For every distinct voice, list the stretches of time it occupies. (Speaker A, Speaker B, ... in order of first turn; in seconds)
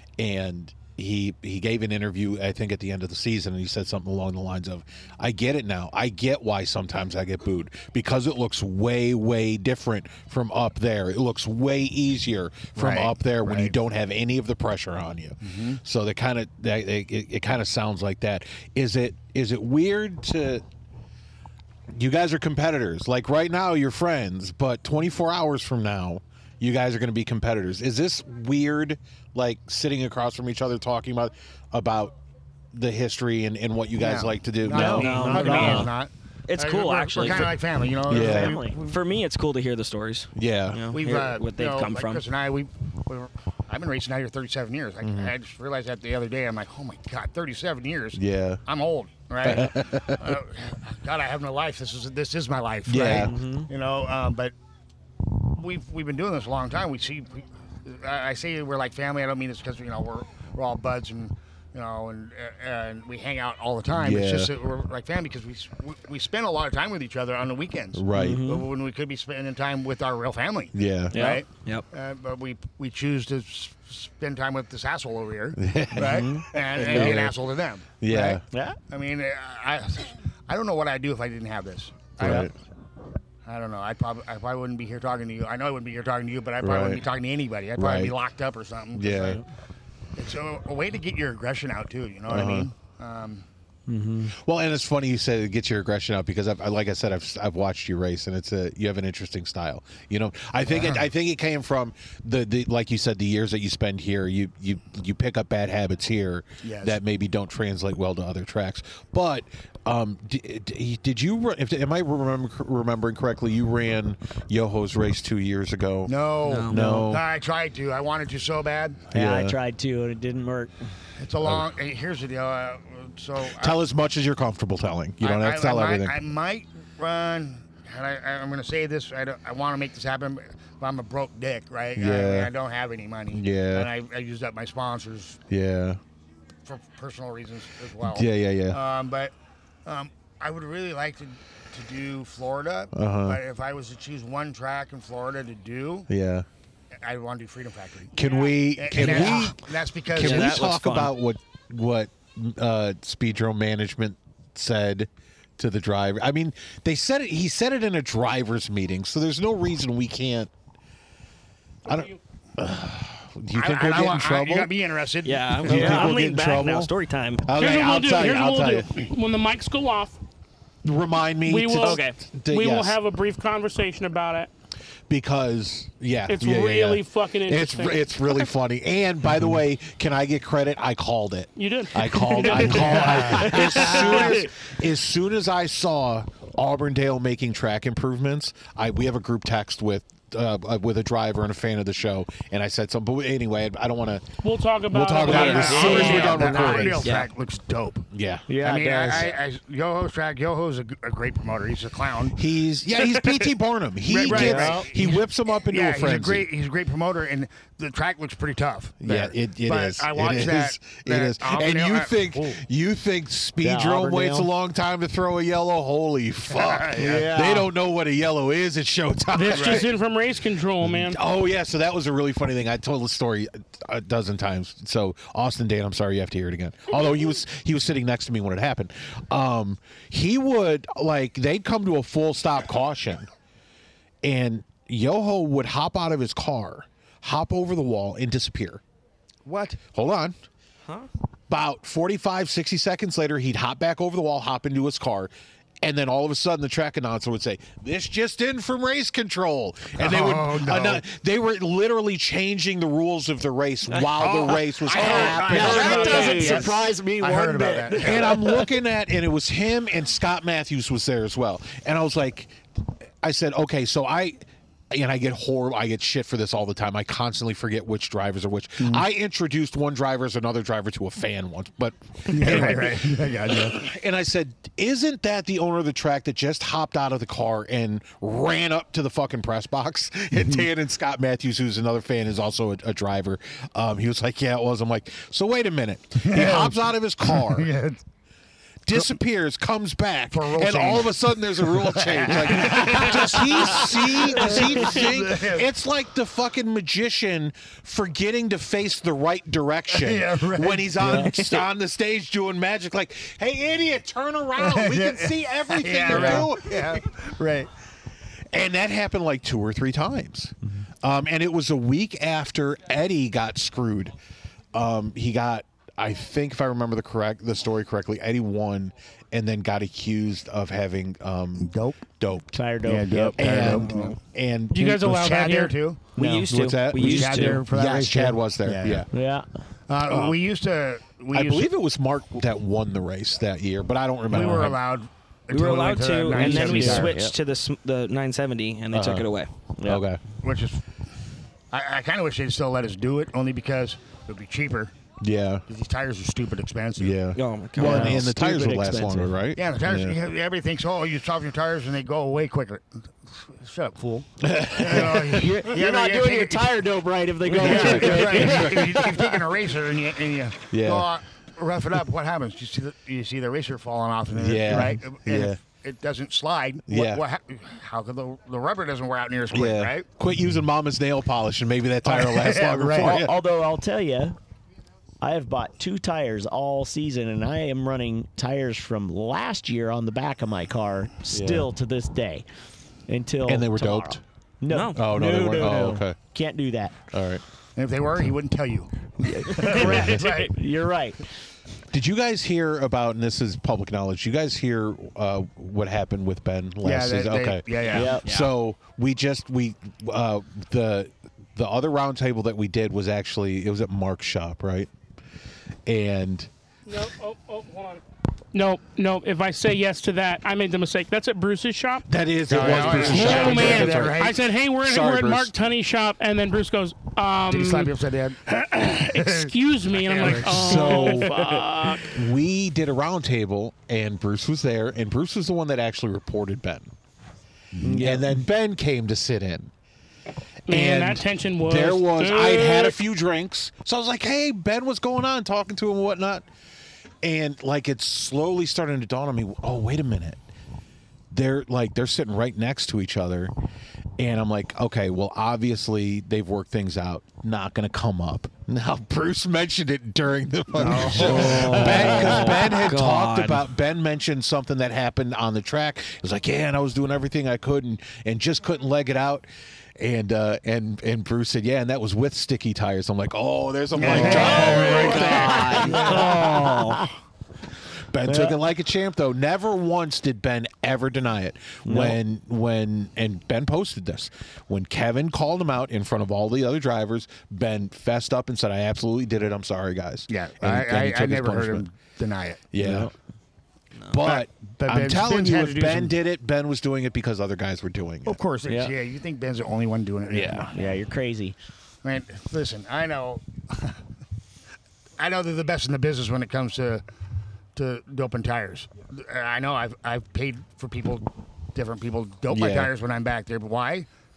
Speaker A: 0.2-20.6, 21.9-32.1, 32.7-35.1, 38.1-38.6, 40.3-40.9, 45.0-45.3, 48.1-48.6, 49.4-50.4, 52.9-53.3, 63.9-64.5, 67.9-68.5, 70.7-71.2, 75.6-77.3, 78.0-78.4, 82.2-82.5, 86.6-87.0, 87.8-88.1, 88.9-89.4, 92.3-92.7, 94.3-116.1, 116.7-117.2, 119.1-119.6, 121.4-121.7, 123.5-126.2, 131.9-132.5, 133.3-133.9, 135.5-136.0, 138.0-138.8, 142.9-143.4, 146.1-146.4, 148.1-160.5, 161.8-164.7, 165.5-166.9, 167.4-168.9, 170.8-173.0, 175.1-194.2, 194.9-197.1, 198.1-198.5, 202.3-206.5, 209.0-219.9, 220.8-233.3, 234.2-238.8, 239.8-240.3, 241.5-245.3, 245.8-256.7, 258.0-264.4, 264.9-287.7, 288.8-307.0, 308.5-314.1, 314.7-322.6, 323.4-325.3, 326.5-329.1, 330.1-330.4, 331.3-334.8, 338.9-339.3, 339.8-340.2, 345.2-345.6, 347.0-350.2, 354.4-355.4, 357.5-358.9, 360.7-361.1, 364.3-365.6, 366.9-367.2, 369.5-373.4, 381.3-381.7, 383.4-384.2, 384.9-386.1, 387.1-387.4, 389.8-390.2, 391.9-404.9, 405.9-406.5, 412.1-415.5, 420.2-426.9, 428.0-429.7, 430.7-436.5, 437.2-440.4, 441.3-443.5, 444.2-466.6, 468.1-481.8, 482.7-483.1, 484.1-488.4, 490.3-490.7, 502.5-502.9
Speaker B: 12.8-13.7, 15.4-15.8, 34.0-39.0, 40.9-54.5, 55.5-82.5, 83.4-89.4, 90.2-93.5, 100.7-101.0, 106.6-107.0, 116.0-119.0, 121.2-123.8, 125.2-135.4, 136.6-139.3, 139.8-146.1, 147.0-150.6, 163.5-166.1, 182.6-183.8, 195.2-202.4, 204.1-212.6, 216.5-217.3, 219.5-219.9, 239.4-239.8, 249.9-251.0, 254.1-258.5, 268.8-269.1, 272.3-273.8, 280.3-280.6, 286.2-288.0, 290.3-295.7, 299.9-301.3, 304.6-307.7, 321.6-322.0, 322.8-324.1, 325.0-326.1, 326.9-329.1, 329.9-331.7, 334.3-337.2, 340.4-340.8, 341.7-344.9, 345.7-347.2, 349.5-356.8, 357.6-370.1, 372.0-373.3, 387.8-390.6, 396.8-398.2, 412.5-414.4, 417.5-418.4, 418.9-420.9, 450.7-452.6, 463.9-467.0, 480.3-482.6, 484.2-486.1, 488.2-490.9, 492.0-494.0, 495.2-497.0, 497.7-504.1
Speaker C: 34.7-35.9, 38.1-38.8, 53.0-53.7, 68.1-68.7, 76.0-77.2, 78.5-78.8, 93.9-94.3, 119.1-120.7, 165.7-166.1, 198.5-199.3, 204.2-205.0, 213.6-214.5, 217.0-217.7, 254.9-258.7, 301.0-301.3, 306.1-306.5, 322.5-323.9, 326.1-328.2, 329.1-329.5, 336.3-337.4, 339.8-340.0, 347.8-349.3, 355.3-359.4, 373.0-374.4, 375.2-382.4, 383.1-387.1, 389.4-391.3, 397.9-398.2, 420.8-422.0, 427.8-428.3, 451.3-452.6, 464.0-467.1, 468.2-468.6, 471.8-472.2, 482.8-483.1, 488.7-488.9, 490.7-491.5
Speaker D: 34.8-35.9, 36.5-37.5, 38.8-42.2, 71.1-71.8, 116.4-117.1, 148.9-149.5, 150.2-151.1, 165.2-167.4, 171.8-172.2, 183.1-184.4, 195.3-196.3, 196.9-197.3, 326.1-327.6, 335.5-339.5, 347.3-348.2, 384.7-385.0, 389.2-390.5, 397.8-398.5, 451.1-453.6
Speaker E: 161.9-162.2, 167.5-170.2, 171.4-174.5, 176.3-178.0, 181.6-184.0, 194.4-196.8, 219.3-221.2, 324.7-325.8, 406.9-408.0, 408.5-412.1, 412.7-417.9, 418.5-422.1, 430.7-433.0